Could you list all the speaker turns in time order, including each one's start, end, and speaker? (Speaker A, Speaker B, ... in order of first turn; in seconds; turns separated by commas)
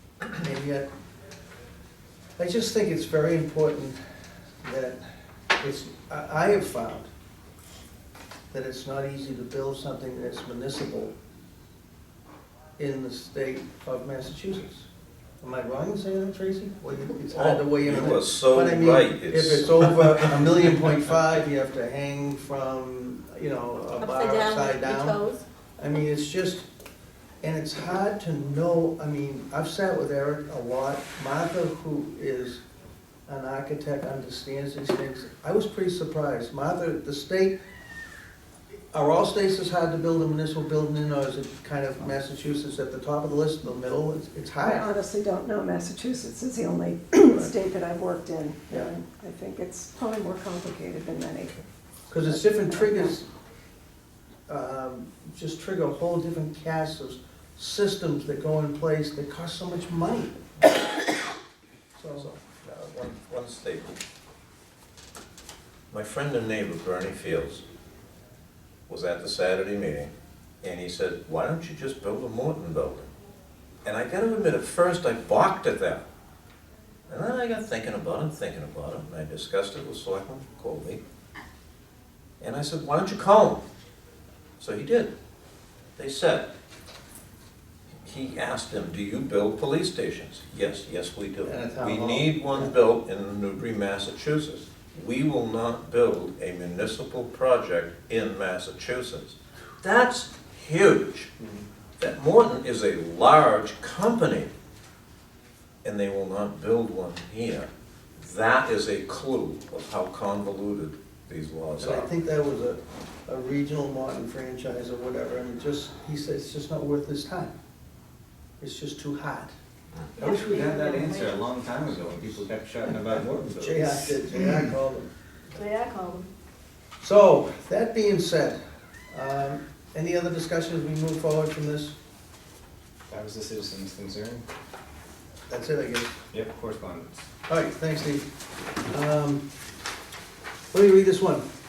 Speaker A: 0.3-0.9, Speaker A: 2.4-4.0, Speaker A: 4.6-5.0, Speaker A: 5.6-7.1, Speaker A: 8.5-11.1, Speaker A: 12.8-14.9, Speaker A: 15.4-25.2, Speaker B: 17.3-20.3, Speaker C: 24.0-25.4, Speaker A: 25.8-26.6, Speaker A: 27.4-32.6, Speaker A: 33.3-37.5, Speaker A: 38.9-44.9, Speaker D: 44.6-51.6, Speaker A: 48.7-48.9, Speaker A: 52.1-53.3, Speaker D: 52.2-53.1, Speaker A: 54.5-60.4, Speaker A: 62.0-62.3, Speaker B: 62.2-64.0, Speaker B: 65.9-67.6, Speaker B: 68.9-73.1, Speaker B: 73.8-76.0, Speaker B: 77.1-81.0, Speaker B: 82.4-83.6, Speaker B: 84.6-85.1, Speaker B: 86.0-86.5, Speaker B: 88.0-101.3, Speaker A: 91.4-92.8, Speaker A: 101.4-101.6, Speaker B: 102.0-104.5, Speaker B: 105.8-112.1, Speaker A: 111.8-117.5, Speaker A: 118.6-119.5, Speaker C: 120.2-121.4, Speaker E: 120.2-124.7, Speaker A: 123.6-125.1, Speaker C: 125.5-126.3, Speaker A: 127.0-128.6, Speaker A: 129.1-131.9, Speaker E: 133.1-134.4, Speaker A: 135.5-136.1, Speaker E: 136.3-137.3, Speaker A: 137.5-138.2, Speaker A: 138.9-139.4, Speaker A: 140.7-141.4